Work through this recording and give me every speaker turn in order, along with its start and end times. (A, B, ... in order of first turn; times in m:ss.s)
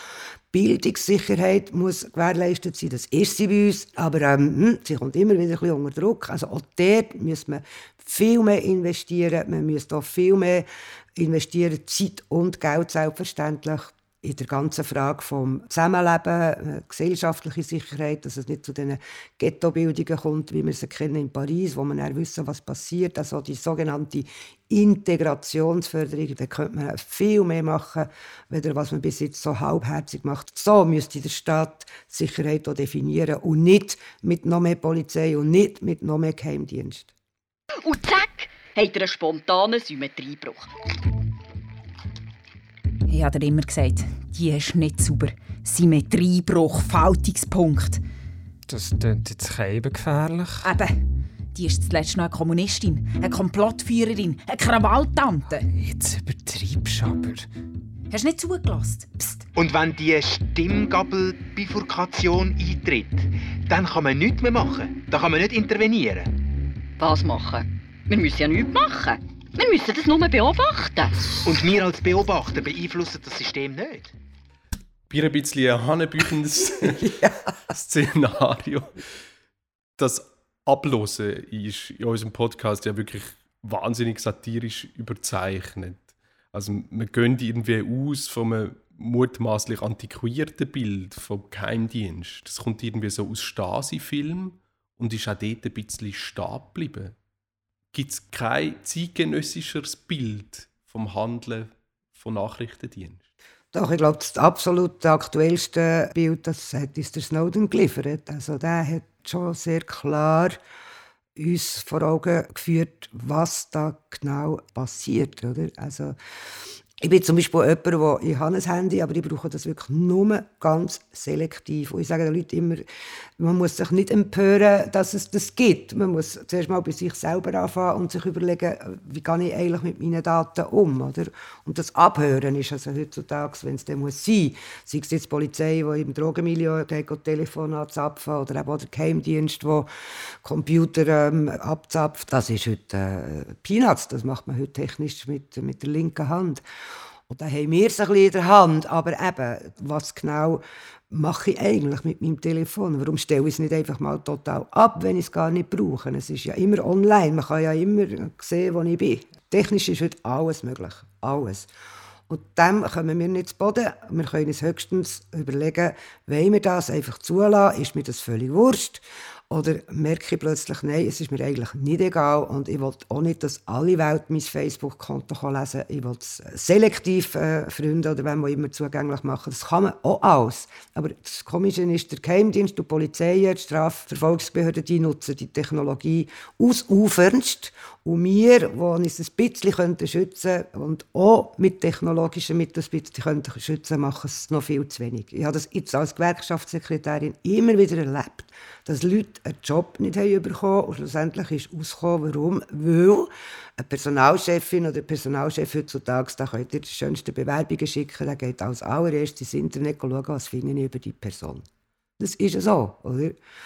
0:00.5-0:37.1 A
0:37.8-0:40.7 B
0:43.1-0:48.0 C
0:48.7-0:50.7 D
0:50.6-0:51.0 C
0:51.5-0:55.7 C
0:55.7-0:57.5 D
0:58.1-0:59.5 C
0:59.6-1:06.3 E
1:07.0-1:11.2 F
1:11.3-1:14.1 E
1:15.1-1:17.1 G
1:17.7-1:18.9 G
1:20.0-1:37.2 G
1:37.9-1:43.2 G
1:43.7-1:50.6 A
1:51.4-1:56.2 A
1:57.0-2:02.8 A
2:03.4-2:19.9 A
2:20.4-2:26.6 A
2:27.3-2:41.7 A
2:42.3-3:31.7 A
3:32.2-3:33.4 A